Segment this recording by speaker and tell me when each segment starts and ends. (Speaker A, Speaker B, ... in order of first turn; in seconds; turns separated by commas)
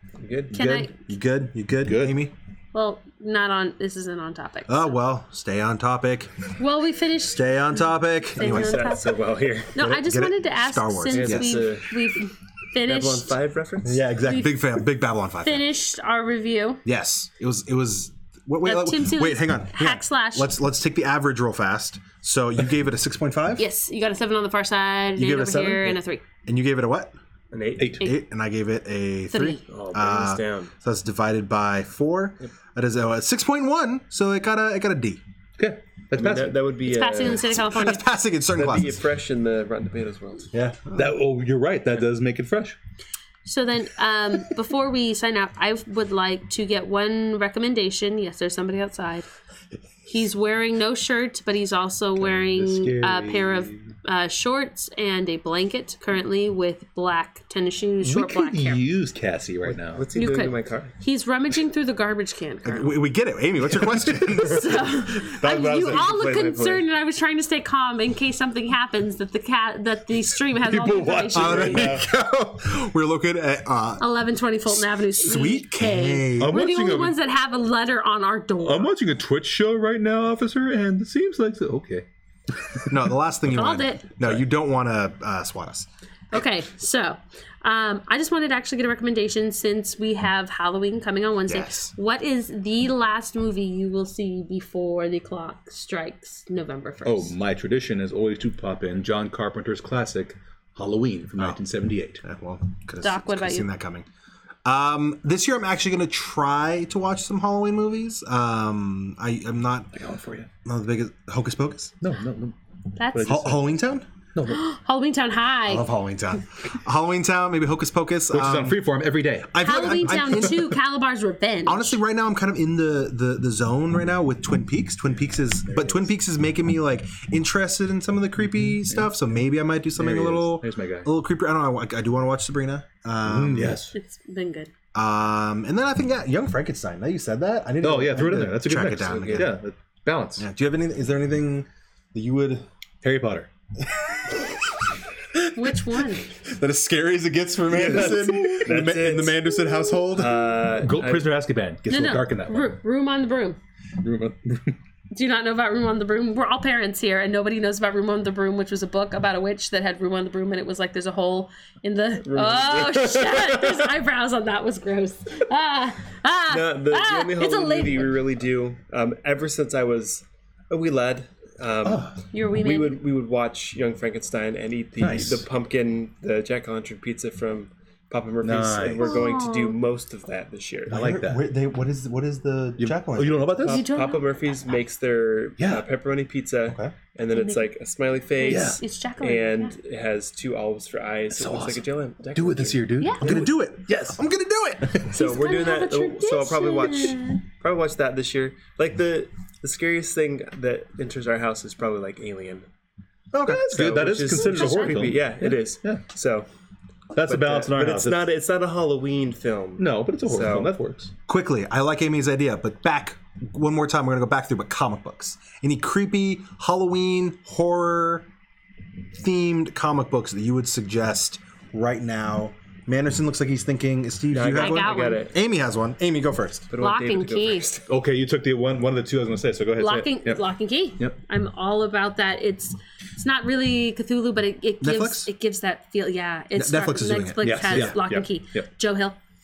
Speaker A: 0.2-0.6, Speaker B: 0.5-0.9, Speaker C: 0.5-2.3, Speaker D: 1.8-2.2, Speaker B: 2.7-4.9, Speaker C: 4.7-6.3, Speaker B: 6.6-7.5, Speaker C: 7.2-9.0, Speaker B: 8.3-13.3, Speaker A: 8.4-9.8, Speaker C: 9.8-11.6, Speaker A: 11.1-11.9, Speaker A: 12.8-14.0, Speaker C: 13.8-15.7, Speaker B: 14.2-14.6, Speaker B: 15.4-16.8, Speaker C: 16.8-23.6, Speaker B: 18.6-20.5, Speaker B: 23.6-26.2, Speaker C: 25.2-27.1, Speaker A: 27.5-28.0, Speaker D: 27.8-28.0, Speaker C: 28.0-35.2, Speaker B: 29.3-29.6, Speaker A: 29.7-30.7, Speaker D: 35.6-36.6, Speaker A: 36.1-37.5, Speaker B: 36.9-38.0, Speaker C: 37.2-39.0, Speaker A: 38.5-40.5, Speaker C: 40.5-41.1, Speaker D: 40.9-42.8, Speaker B: 43.5-49.3, Speaker B: 50.0-58.8, Speaker D: 52.2-53.9, Speaker D: 58.0-60.0, Speaker A: 59.9-60.9, Speaker B: 60.1-62.9, Speaker C: 62.6-66.0, Speaker B: 64.3-71.9, Speaker A: 65.2-66.8, Speaker D: 70.6-72.0, Speaker C: 71.3-74.0, Speaker A: 71.4-72.0, Speaker B: 74.0-78.9, Speaker C: 74.7-76.6, Speaker D: 76.4-77.2, Speaker D: 78.6-83.0, Speaker C: 82.9-85.9, Speaker B: 83.5-84.2, Speaker B: 86.3-97.3, Speaker C: 91.5-91.9, Speaker D: 97.0-102.2, Speaker C: 102.2-104.0, Speaker B: 103.0-103.7, Speaker C: 104.6-109.9, Speaker D: 109.9-110.5, Speaker C: 110.6-111.9, Speaker D: 112.0-112.5, Speaker B: 113.0-113.5, Speaker D: 113.1-113.7, Speaker C: 113.2-114.0, Speaker D: 114.3-114.6, Speaker B: 114.5-115.9, Speaker C: 115.7-118.8, Speaker D: 118.3-120.6, Speaker C: 119.5-120.7, Speaker B: 119.6-122.0, Speaker C: 121.7-133.8, Speaker D: 125.7-126.0, Speaker D: 128.4-129.1, Speaker D: 129.9-131.1, Speaker D: 133.2-133.9, Speaker B: 133.9-134.7, Speaker C: 134.9-139.6, Speaker D: 137.8-140.4, Speaker C: 140.4-142.6, Speaker D: 143.0-143.5, Speaker B: 145.5-146.3, Speaker C: 146.3-150.5, Speaker A: 147.7-151.3, Speaker D: 147.7-148.7, Speaker D: 150.7-152.7, Speaker B: 151.9-153.6, Speaker D: 154.0-154.8, Speaker B: 155.1-168.2, Speaker A: 162.2-163.9, Speaker A: 166.5-180.9, Speaker D: 171.8-172.1, Speaker B: 172.3-173.0, Speaker D: 175.0-175.4, Speaker C: 175.0-175.4, Speaker D: 178.4-179.3, Speaker B: 179.0-179.7, Speaker D: 180.9-181.4, Speaker C: 180.9-183.7, Speaker D: 182.8-183.8, Speaker A: 183.6-193.5, Speaker B: 183.7-184.6, Speaker D: 185.6-185.8, Speaker C: 186.7-186.9, Speaker B: 187.3-187.7, Speaker B: 188.3-189.7, Speaker D: 188.4-188.8, Speaker D: 191.3-191.8, Speaker D: 192.3-194.2, Speaker C: 193.2-195.1, Speaker A: 195.0-202.7, Speaker B: 195.1-197.4, Speaker C: 203.3-203.8, Speaker D: 203.4-206.0, Speaker A: 203.6-206.5, Speaker B: 204.3-205.0, Speaker D: 207.1-208.2, Speaker A: 207.2-210.8, Speaker D: 209.8-211.1, Speaker C: 211.3-218.2, Speaker C: 219.2-226.7, Speaker A: 224.3-225.3, Speaker B: 224.5-225.3, Speaker A: 226.7-227.9, Speaker B: 226.8-227.7, Speaker D: 227.9-230.4, Speaker B: 229.8-239.2, Speaker C: 234.8-235.3, Speaker C: 236.6-238.0, Speaker D: 237.4-238.7